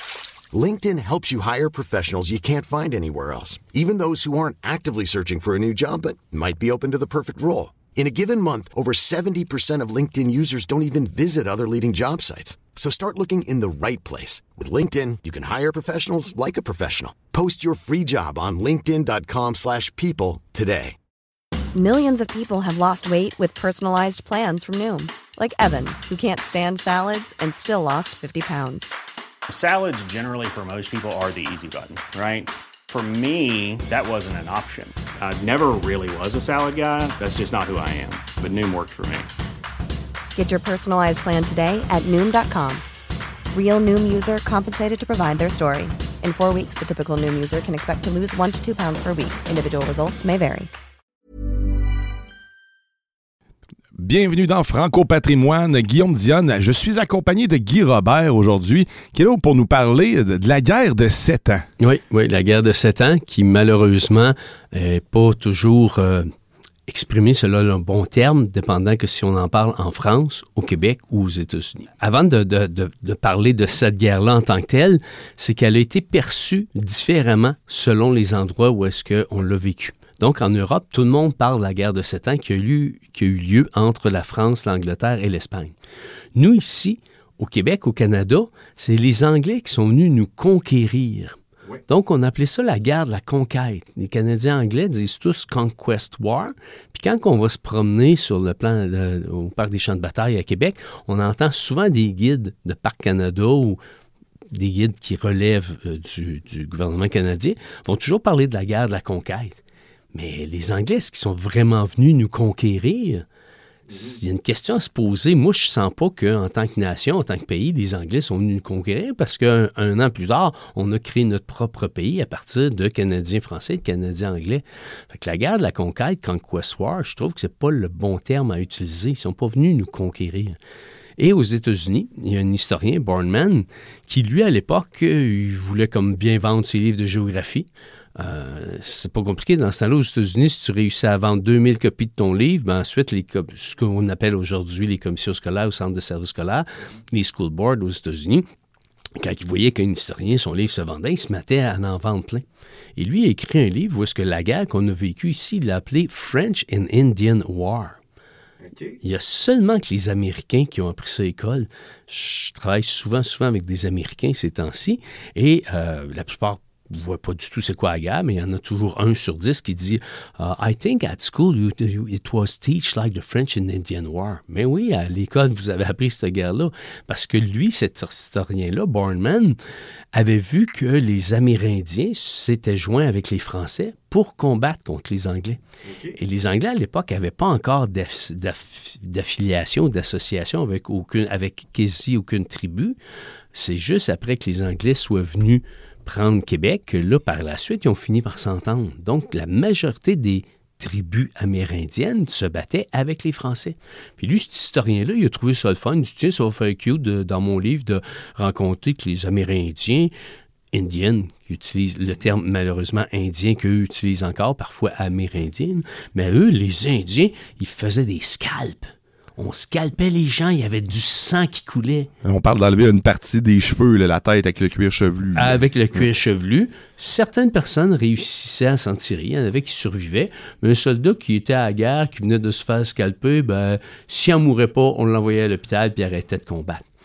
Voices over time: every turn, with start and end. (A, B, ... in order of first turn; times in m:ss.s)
0:00.5-0:21.0 A
0:21.7-0:28.9 B
0:29.5-0:39.3 C
0:40.4-0:42.8 B
0:43.5-0:50.7 B
0:53.9-1:01.7 D
1:01.8-1:06.3 E
1:06.9-1:25.8 E
1:26.4-1:43.8 E
1:44.5-1:49.6 E
1:50.1-1:53.2 E
1:53.9-2:10.6 E
2:11.2-2:28.5 E
2:29.2-2:32.4 E
2:33.0-2:38.0 E
2:38.6-2:39.0 D
2:39.0-2:59.6 E
3:00.1-3:13.0 E
3:05.9-3:06.1 D
3:13.5-3:30.1 E
3:30.7-3:42.1 E
3:42.2-3:45.6 D
3:45.4-3:56.8 E